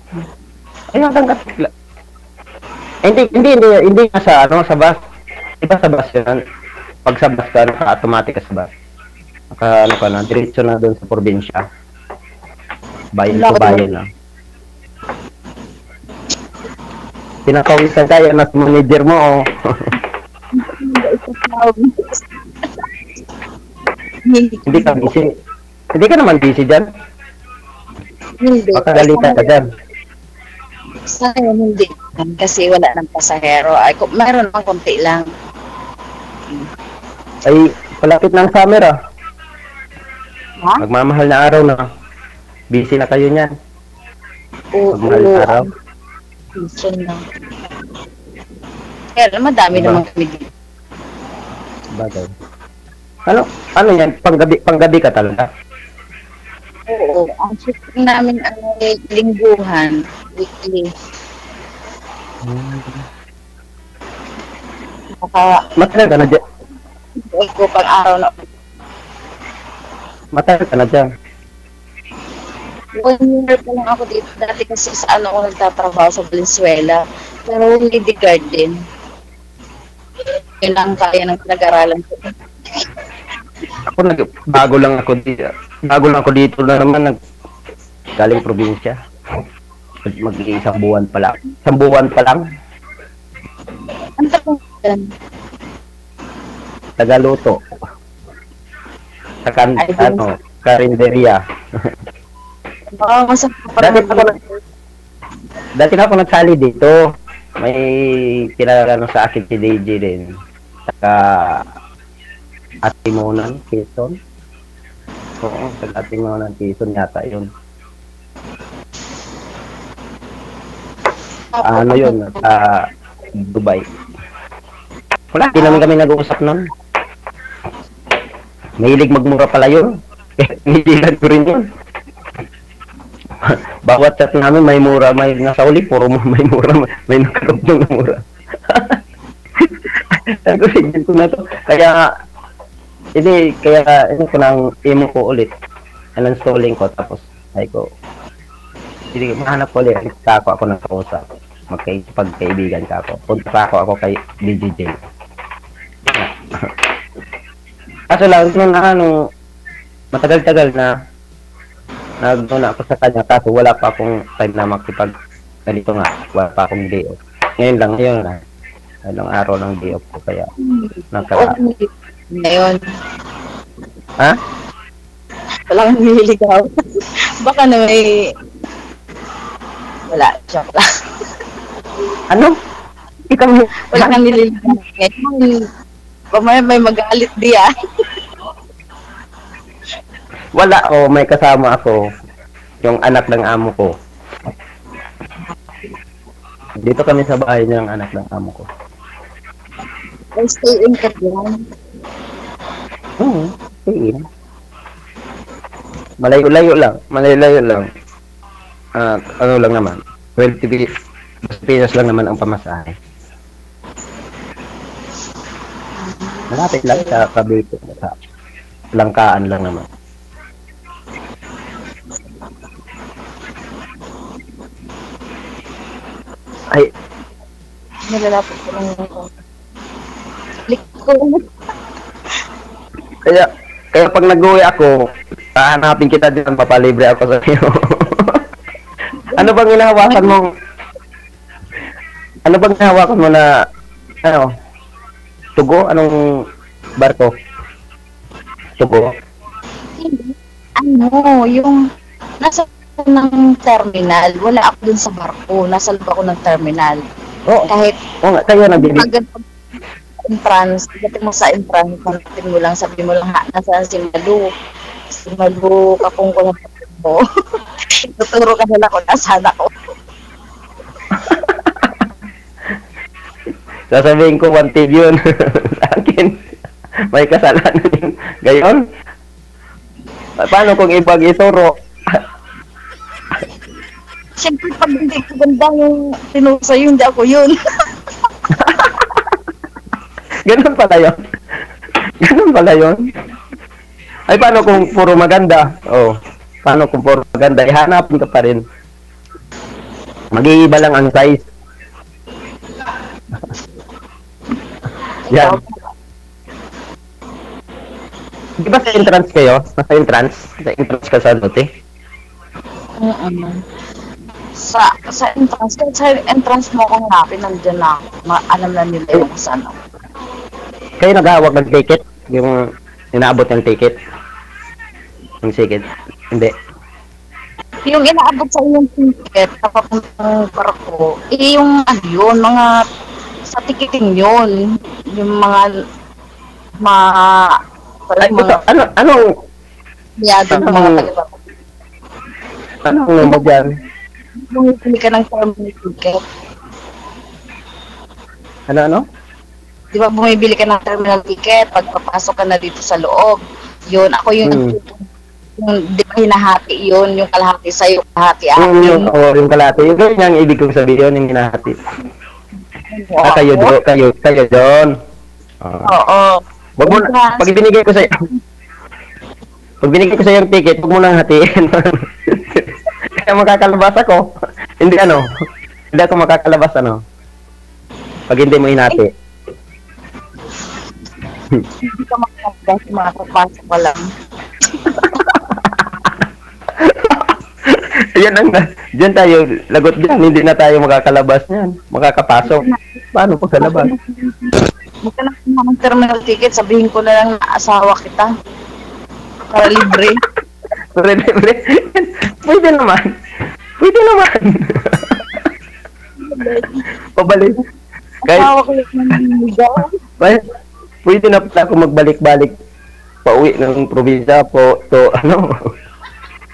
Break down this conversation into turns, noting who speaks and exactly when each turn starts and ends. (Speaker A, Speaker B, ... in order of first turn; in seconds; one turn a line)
Speaker A: 0.9-1.7
Speaker A: 3.0-5.0
Speaker A: 5.6-6.4
Speaker A: 7.0-8.7
Speaker A: 9.5-11.6
Speaker A: 13.2-14.1
Speaker B: 13.3-13.9
Speaker A: 17.4-19.4
Speaker B: 20.6-22.2
Speaker B: 24.3-25.1
Speaker A: 24.7-25.3
Speaker A: 25.9-26.8
Speaker B: 28.4-29.6
Speaker A: 28.7-29.6
Speaker B: 31.1-35.2
Speaker A: 37.5-38.9
Speaker A: 40.8-41.8
Speaker A: 42.7-43.5
Speaker B: 44.7-45.6
Speaker A: 44.9-45.6
Speaker B: 46.5-47.2
Speaker B: 49.1-50.5
Speaker A: 49.7-50.0
Speaker A: 52.0-52.3
Speaker A: 53.3-55.5
Speaker B: 56.9-60.9
Speaker A: 62.4-63.0
Speaker B: 65.2-65.6
Speaker A: 65.8-66.4
Speaker B: 67.2-68.3
Speaker A: 70.3-71.0
Speaker B: 73.0-78.7
Speaker B: 80.6-82.3
Speaker A: 83.9-87.1
Speaker A: 88.2-89.0
Speaker A: 90.0-92.4
Speaker B: 94.2-95.0
Speaker A: 97.0-97.6
Speaker A: 99.4-101.4
Speaker B: 99.8-100.2
Speaker B: 103.0-104.4
Speaker A: 103.8-104.3
Speaker A: 105.8-107.0
Speaker A: 107.6-110.2
Speaker A: 110.9-111.6
Speaker A: 112.9-114.1
Speaker A: 115.4-117.5
Speaker B: 121.5-122.3
Speaker A: 121.6-122.8
Speaker A: 123.4-123.8
Speaker A: 125.3-126.6
Speaker B: 125.5-125.8
Speaker A: 128.8-129.8
Speaker A: 130.4-131.6
Speaker A: 133.4-139.0
Speaker A: 139.6-142.0
Speaker A: 143.2-145.5
Speaker A: 146.2-147.8
Speaker A: 149.1-154.9
Speaker A: 156.1-156.7
Speaker A: 158.1-159.1
Speaker A: 160.1-160.9
Speaker A: 162.2-165.1
Speaker A: 165.7-168.4
Speaker A: 169.1-170.5
Speaker B: 170.6-172.8
Speaker A: 171.1-171.5
Speaker B: 175.7-178.1
Speaker B: 180.1-180.8
Speaker A: 183.3-184.2
Speaker B: 183.9-185.5
Speaker B: 186.3-187.7
Speaker A: 190.6-192.0
Speaker A: 192.8-193.9
Speaker A: 196.8-198.7
Speaker B: 200.4-201.5
Speaker A: 203.2-204.2
Speaker A: 206.2-207.8
Speaker A: 209.0-210.8
Speaker A: 211.5-212.9
Speaker B: 216.0-217.2
Speaker A: 216.5-218.1
Speaker A: 219.0-219.8
Speaker B: 228.1-229.3
Speaker B: 230.7-231.4
Speaker A: 233.3-234.9
Speaker A: 235.6-238.4
Speaker A: 239.3-240.5
Speaker B: 240.1-240.3
Speaker A: 242.4-243.4
Speaker A: 245.6-246.1
Speaker A: 247.0-247.3
Speaker A: 248.8-249.1
Speaker B: 250.0-251.8
Speaker B: 252.4-257.0
Speaker B: 257.7-258.0
Speaker A: 258.2-259.1
Speaker B: 258.7-259.4
Speaker B: 260.3-264.4
Speaker B: 265.2-267.2
Speaker B: 268.0-269.7
Speaker A: 271.1-272.0
Speaker A: 273.9-276.4
Speaker A: 277.1-278.8
Speaker A: 280.4-282.2
Speaker B: 284.4-287.5
Speaker A: 288.6-289.1
Speaker A: 290.4-291.1
Speaker A: 292.2-293.0
Speaker A: 294.3-296.1
Speaker A: 296.6-298.6
Speaker A: 300.3-301.4
Speaker B: 305.3-305.9
Speaker A: 305.3-305.6
Speaker A: 308.6-311.6
Speaker B: 313.0-313.6
Speaker B: 314.6-319.7
Speaker A: 321.0-322.6
Speaker A: 323.1-323.9
Speaker A: 325.4-326.5
Speaker B: 327.9-332.6
Speaker B: 333.5-334.5
Speaker B: 335.1-335.7
Speaker B: 336.8-337.4
Speaker B: 338.1-338.6
Speaker A: 338.2-339.2
Speaker B: 340.2-341.3
Speaker A: 340.5-341.1
Speaker A: 342.9-343.6
Speaker B: 343.2-343.6
Speaker B: 344.5-346.2
Speaker A: 348.7-349.0
Speaker B: 349.9-353.4
Speaker B: 353.9-355.0
Speaker A: 354.4-354.8
Speaker B: 355.6-359.1
Speaker A: 358.6-361.8
Speaker B: 362.9-363.7
Speaker A: 363.2-364.9
Speaker A: 365.6-365.9
Speaker B: 365.9-367.6
Speaker A: 366.8-368.2
Speaker A: 369.8-374.2
Speaker A: 374.8-375.2
Speaker A: 375.9-377.0
Speaker A: 378.3-379.1
Speaker B: 381.8-384.1
Speaker A: 385.0-385.5
Speaker A: 386.8-392.6
Speaker B: 392.4-392.8
Speaker A: 393.1-393.9
Speaker B: 393.6-398.3
Speaker B: 399.5-400.2
Speaker A: 399.6-400.1
Speaker A: 400.9-403.1
Speaker A: 403.8-405.2
Speaker B: 406.2-406.8
Speaker A: 407.2-407.6
Speaker B: 408.3-409.9
Speaker A: 411.0-412.5
Speaker A: 413.2-415.5